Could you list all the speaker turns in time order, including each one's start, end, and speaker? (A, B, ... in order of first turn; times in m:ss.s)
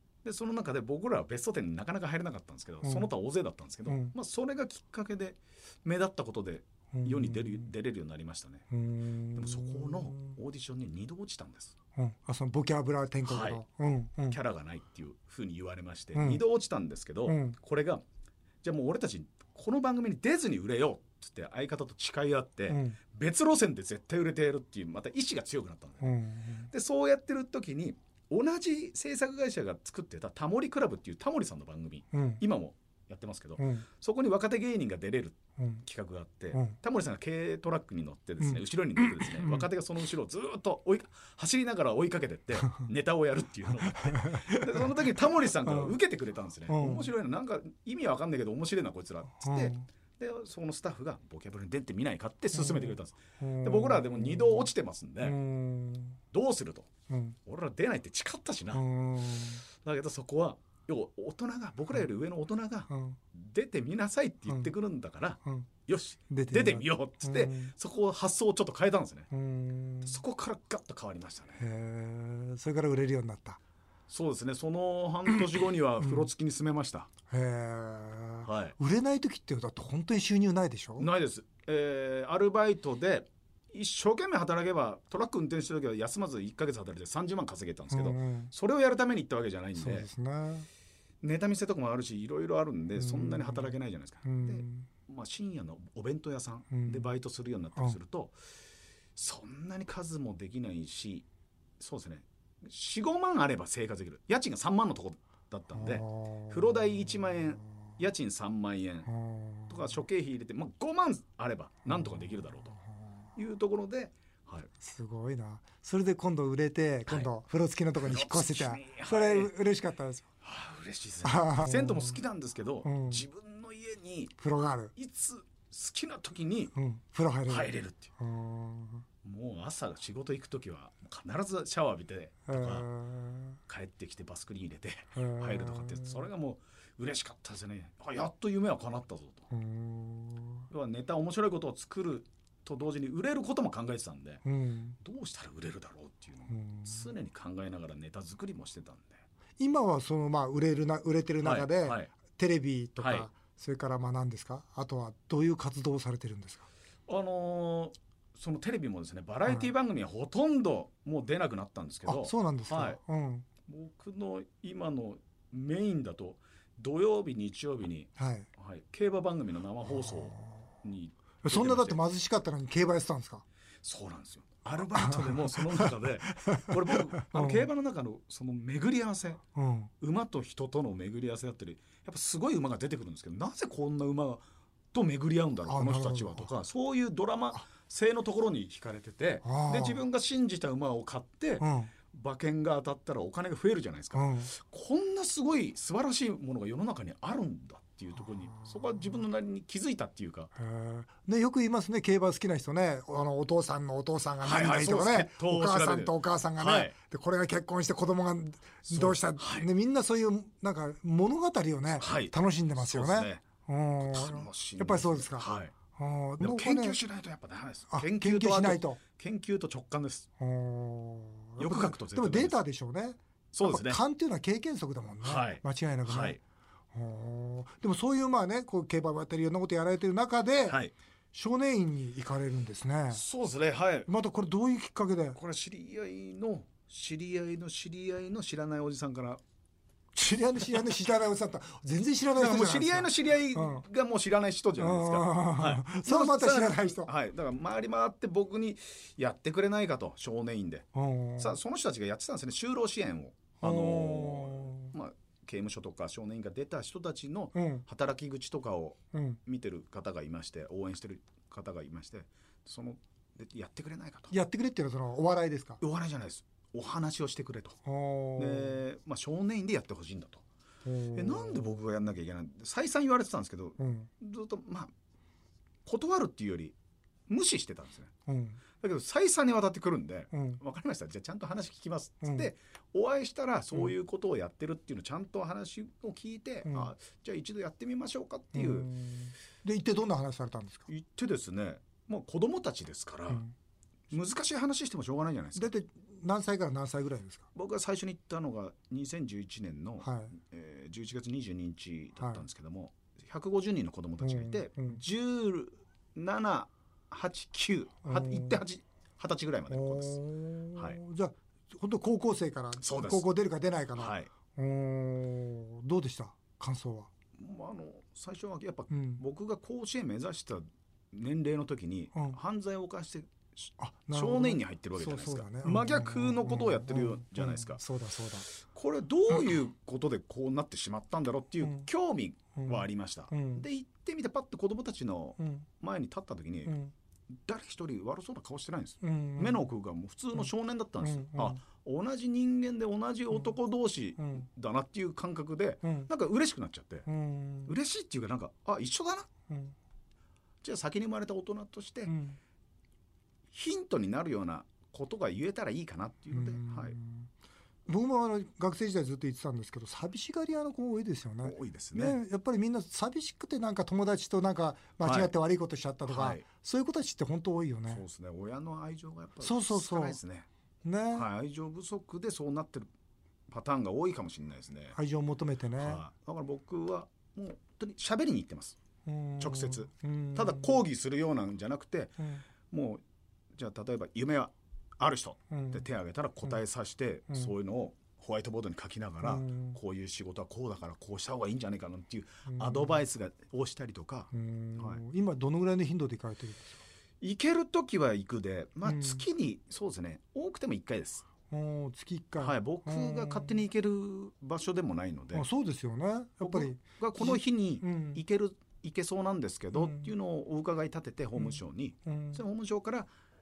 0:00.2-0:08.6 A
0:02.8-0:03.1 B
0:03.8-0:04.1 B
0:06.9-0:07.7 B
0:08.7-0:10.4 B
0:09.3-0:11.7 A
0:12.0-0:14.4 B
0:13.2-0:13.6 A
0:14.2-0:18.0 A
0:16.1-0:16.4 B
0:17.2-0:17.6 B
0:18.6-0:26.1 A
0:22.7-0:23.0 B
0:26.0-0:26.7 B
0:26.7-0:55.4 A
0:32.1-0:32.4 B
0:33.6-0:33.9 B
0:35.6-0:35.8 B
0:38.4-0:39.7 B
0:44.1-0:45.0 B
0:45.6-0:46.0 B
0:46.7-0:47.1 B
0:49.4-0:49.9 B
0:52.5-0:54.7 B
0:55.2-0:56.2 B
0:56.3-0:56.9 A
0:57.1-0:57.4 B
0:57.4-0:58.8 A
0:58.7-0:59.6 B
0:59.8-1:09.3 A
1:02.9-1:03.2 B
1:06.3-1:07.7 B
1:09.3-1:10.2 B
1:10.0-1:11.6 A
1:11.6-1:13.6 B
1:14.1-1:17.1 A
1:16.0-1:16.3 B
1:17.3-1:21.1 B
1:18.4-1:18.8 A
1:21.0-1:30.1 A
1:27.9-1:28.5 B
1:29.8-1:30.7 B
1:31.2-1:38.4 A
1:33.0-1:34.9 B
1:36.7-1:37.1 B
1:39.2-1:41.2 A
1:41.8-1:49.1 A
1:45.7-1:47.7 B
1:49.1-1:50.0 B
1:49.7-1:52.7 A
1:51.9-1:53.1 B
1:53.4-1:54.7 A
1:54.8-2:00.3 B
1:58.0-1:59.5 A
2:00.4-2:04.4 A
2:01.2-2:02.2 B
2:02.8-2:03.2 B
2:04.4-2:04.9 B
2:05.0-2:06.7 A
2:06.7-2:09.0 B
2:07.5-2:08.1 A
2:09.2-2:12.9 A
2:12.5-2:13.6 B
2:13.7-2:19.5 A
2:15.1-2:16.3 B
2:19.5-2:20.7 B
2:20.7-2:24.4 A
2:24.4-2:25.0 B
2:25.0-2:29.2 A
2:26.5-2:27.1 B
2:29.6-2:36.7 B
2:31.4-2:32.1 A
2:33.0-2:33.3 A
2:37.1-2:43.0 A
2:42.0-2:43.5 B
2:43.7-2:52.0 A
2:48.2-2:48.5 B
2:49.9-2:50.6 B
2:51.4-2:53.4 B
2:53.8-2:59.4 A
2:55.0-2:57.7 B
2:59.5-2:59.9 B
3:00.0-3:20.5 A
3:05.6-3:06.5 B
3:09.4-3:10.0 B
3:11.6-3:11.9 B
3:14.1-3:14.5 B
3:18.5-3:19.2 B
3:20.6-3:37.0 B
3:24.4-3:26.9 A
3:28.9-3:29.7 A
3:32.0-3:33.4 A
3:34.0-3:35.7 A
3:36.4-3:40.3 A
3:37.9-3:39.0 B
3:40.4-3:46.4 B
3:41.6-3:42.6 A
3:43.5-3:44.0 A
3:45.2-3:46.4 A
3:46.9-3:50.8 B
3:50.7-3:50.9 A
3:51.3-3:53.2 B
3:53.1-3:54.1 A
3:54.1-3:55.4 B
3:55.3-3:59.4 A
4:00.1-4:03.8 B
4:02.3-4:10.9 A
4:04.8-4:07.1 B
4:10.9-4:11.6 B
4:11.4-4:24.3 A
4:13.6-4:14.9 B
4:17.5-4:17.8 B
4:19.1-4:19.4 B
4:24.3-4:25.8 B
4:25.8-4:27.8 A
4:27.8-4:28.8 B
4:28.4-4:30.4 A
4:30.8-4:31.8 B
4:31.1-4:34.9 A
4:33.8-4:34.1 B
4:35.8-4:36.7 A
4:37.3-4:38.1 A
4:38.3-4:38.6 B
4:38.8-4:48.9 A
4:40.3-4:40.6 B
4:42.2-4:42.5 B
4:46.6-4:46.9 B
4:48.5-4:50.9 B
4:50.9-4:53.4 A
4:54.1-4:55.7 A
4:55.6-4:57.5 B
4:57.5-5:10.2 A
5:00.0-5:00.3 B
5:04.2-5:05.0 B
5:08.0-5:08.6 B
5:09.7-5:17.1 B
5:12.8-5:13.3 A
5:14.0-5:14.3 A
5:17.4-5:27.8 A
5:18.9-5:19.2 B
5:23.8-5:28.5 B
5:28.5-5:36.8 A
5:31.6-5:31.9 B
5:32.6-5:33.6 B
5:35.4-5:35.6 B
5:36.6-5:36.9 B
5:37.4-5:47.1 A
5:39.0-5:39.7 B
5:41.0-5:41.6 B
5:44.2-5:44.4 B
5:45.8-5:46.1 B
5:47.1-5:47.7 B
5:47.6-5:49.3 A
5:49.5-5:49.7 B
5:50.6-5:52.1 A
5:52.1-5:52.4 B
5:53.5-5:57.0 A
5:56.3-5:57.3 B
5:57.9-6:08.0 B
6:01.4-6:02.2 A
6:05.0-6:05.3 A
6:06.1-6:06.4 A
6:07.9-6:10.5 A
6:09.4-6:10.2 B
6:10.8-6:11.3 B
6:11.1-6:12.9 A
6:13.5-6:15.0 A
6:14.9-6:16.0 B
6:15.8-6:18.8 A
6:19.0-6:20.8 B
6:19.4-6:22.2 A
6:22.7-6:23.0 A
6:23.5-6:35.0 A
6:25.5-6:25.8 B
6:29.2-6:29.8 B
6:32.5-6:33.0 B
6:34.3-6:36.8 B
6:37.2-6:41.2 A
6:38.8-6:39.2 B
6:41.5-6:43.6 B
6:42.4-6:45.4 A
6:45.3-6:48.2 B
6:46.4-6:53.1 A
6:49.7-6:50.1 B
6:51.4-6:52.4 B